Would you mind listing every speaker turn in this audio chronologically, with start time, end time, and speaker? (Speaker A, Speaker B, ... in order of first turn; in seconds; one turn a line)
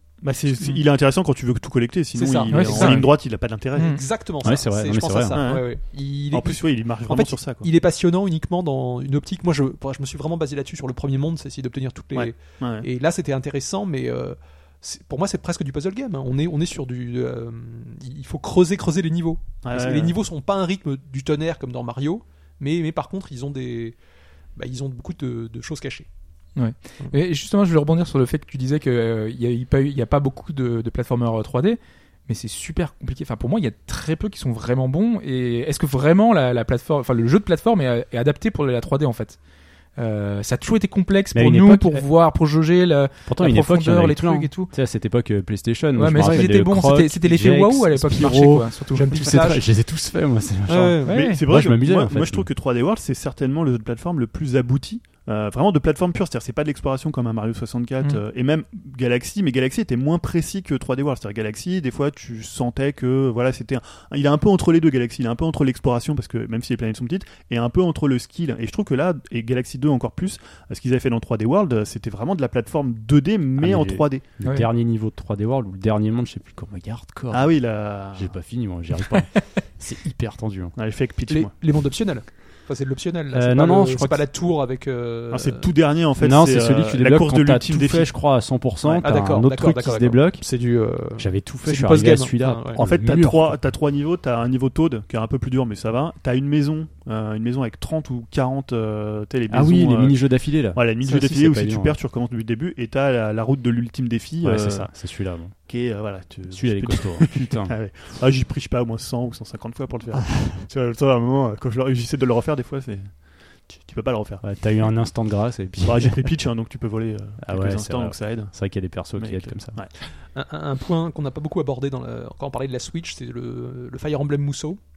Speaker A: 0.2-4.0
Speaker B: 2.1-3.1
Speaker C: 2.5-3.1
Speaker B: 3.7-24.0
Speaker D: 4.4-5.4
Speaker A: 5.3-5.7
Speaker A: 6.3-7.7
Speaker A: 12.1-12.9
Speaker A: 19.6-20.1
Speaker B: 24.6-26.1
Speaker C: 26.6-39.4
Speaker C: 40.0-44.7
Speaker D: 41.3-42.0
Speaker D: 43.3-52.5
Speaker C: 46.0-49.5
Speaker B: 46.2-46.5
Speaker B: 48.9-49.6
Speaker B: 50.7-51.2
Speaker C: 51.0-51.4
Speaker A: 51.1-74.2
Speaker D: 73.6-80.7
Speaker A: 77.3-78.3
Speaker A: 80.8-81.5
Speaker B: 81.3-85.7
Speaker D: 83.3-84.3
Speaker A: 85.3-88.1
Speaker D: 86.2-90.5
Speaker A: 88.8-89.1
Speaker B: 89.0-92.8
Speaker D: 91.1-93.6
Speaker A: 92.8-114.4
Speaker D: 99.5-102.0
Speaker D: 104.4-105.5
Speaker D: 106.5-107.7
Speaker D: 114.4-116.3
Speaker A: 115.8-119.9
Speaker D: 117.4-119.8
Speaker B: 120.2-124.8